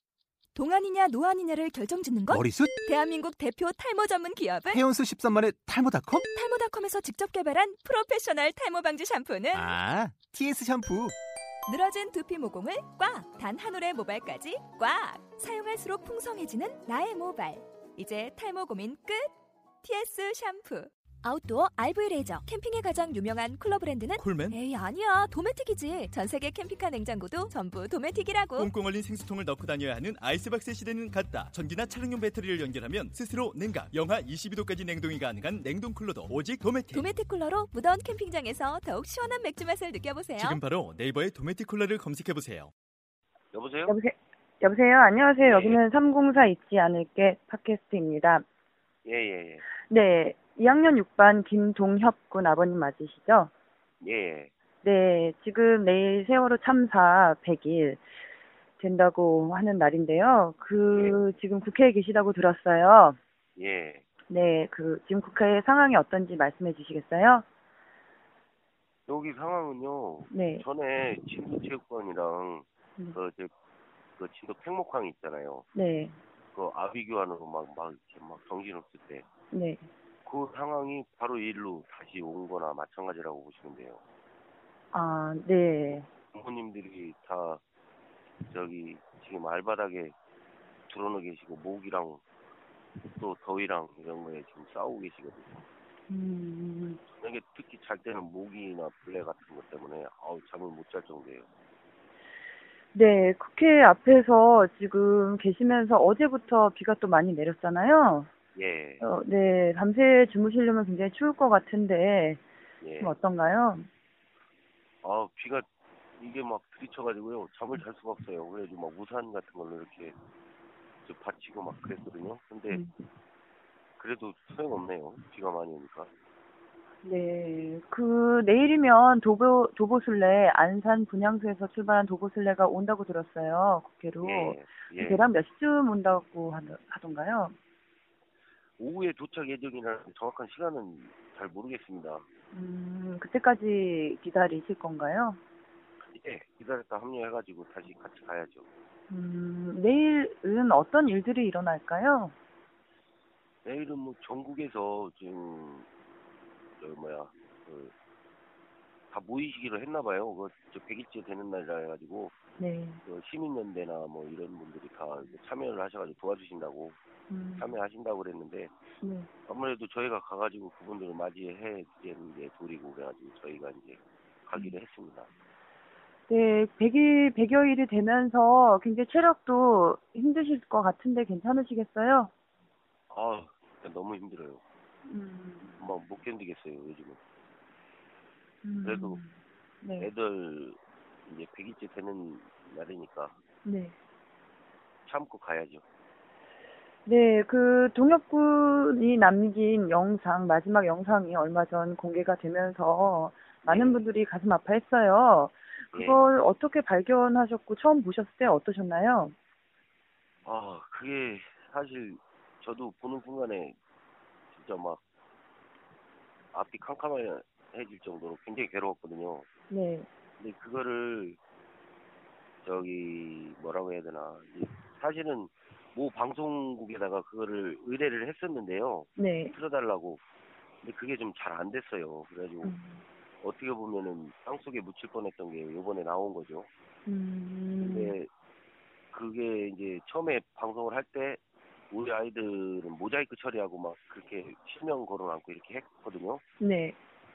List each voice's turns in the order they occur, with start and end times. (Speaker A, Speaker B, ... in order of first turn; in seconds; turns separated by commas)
Speaker A: 0.5-4.8, Speaker B: 2.3-2.7, Speaker B: 4.7-6.2, Speaker A: 6.2-9.7, Speaker B: 9.5-11.2, Speaker A: 11.7-19.3, Speaker A: 19.8-28.7, Speaker C: 24.2-24.6, Speaker C: 28.6-37.1, Speaker A: 36.9-40.6, Speaker C: 40.4-42.7, Speaker D: 43.5-44.0, Speaker E: 43.9-48.4, Speaker D: 45.4-45.8, Speaker D: 49.0-49.6, Speaker E: 49.8-53.5, Speaker D: 54.0-54.5, Speaker E: 54.8-58.1, Speaker E: 58.8-63.2, Speaker D: 60.9-61.1, Speaker D: 63.6-64.0, Speaker E: 64.3-67.4, Speaker D: 69.1-73.5, Speaker E: 70.3-70.6, Speaker D: 74.2-75.7, Speaker E: 75.7-76.2, Speaker D: 76.5-79.2, Speaker E: 79.5-79.9, Speaker D: 80.2-84.0, Speaker E: 84.9-86.1, Speaker D: 86.3-87.6, Speaker D: 88.5-90.1, Speaker D: 90.9-92.2, Speaker D: 93.2-95.6, Speaker E: 96.1-97.0, Speaker D: 97.1-101.5, Speaker E: 102.9-108.3, Speaker D: 108.5-109.0, Speaker E: 109.0-112.4, Speaker D: 112.8-113.1, Speaker E: 113.0-113.9, Speaker D: 115.0-115.7, Speaker D: 116.2-120.1, Speaker D: 121.0-122.8, Speaker E: 122.7-123.0, Speaker D: 124.0-126.1, Speaker E: 127.0-137.6, Speaker D: 134.2-135.2, Speaker D: 138.8-142.2, Speaker E: 142.5-145.4, Speaker D: 146.1-148.6, Speaker E: 149.1-152.3, Speaker D: 153.6-155.9, Speaker D: 156.8-157.9, Speaker D: 159.1-162.3, Speaker E: 162.6-163.0, Speaker D: 163.0-167.0, Speaker E: 167.3-167.8, Speaker D: 167.6-168.7, Speaker E: 169.0-169.3, Speaker D: 169.5-175.3, Speaker E: 176.3-182.3, Speaker D: 183.1-184.6, Speaker E: 185.1-185.8, Speaker D: 185.8-187.2, Speaker E: 188.6-190.1, Speaker D: 188.8-189.2, Speaker D: 189.9-193.4, Speaker E: 193.6-193.9, Speaker D: 195.1-195.8, Speaker E: 197.1-209.3, Speaker D: 203.6-204.1, Speaker D: 205.9-206.3, Speaker D: 210.4-213.8, Speaker D: 214.5-215.0, Speaker D: 216.5-219.5, Speaker E: 219.7-220.1, Speaker D: 220.4-221.4, Speaker D: 222.6-230.2, Speaker E: 229.2-229.5, Speaker D: 230.8-232.7, Speaker E: 232.6-233.0, Speaker D: 233.4-236.7, Speaker E: 237.1-238.1, Speaker D: 237.8-238.3, Speaker D: 239.1-246.4, Speaker E: 246.6-246.9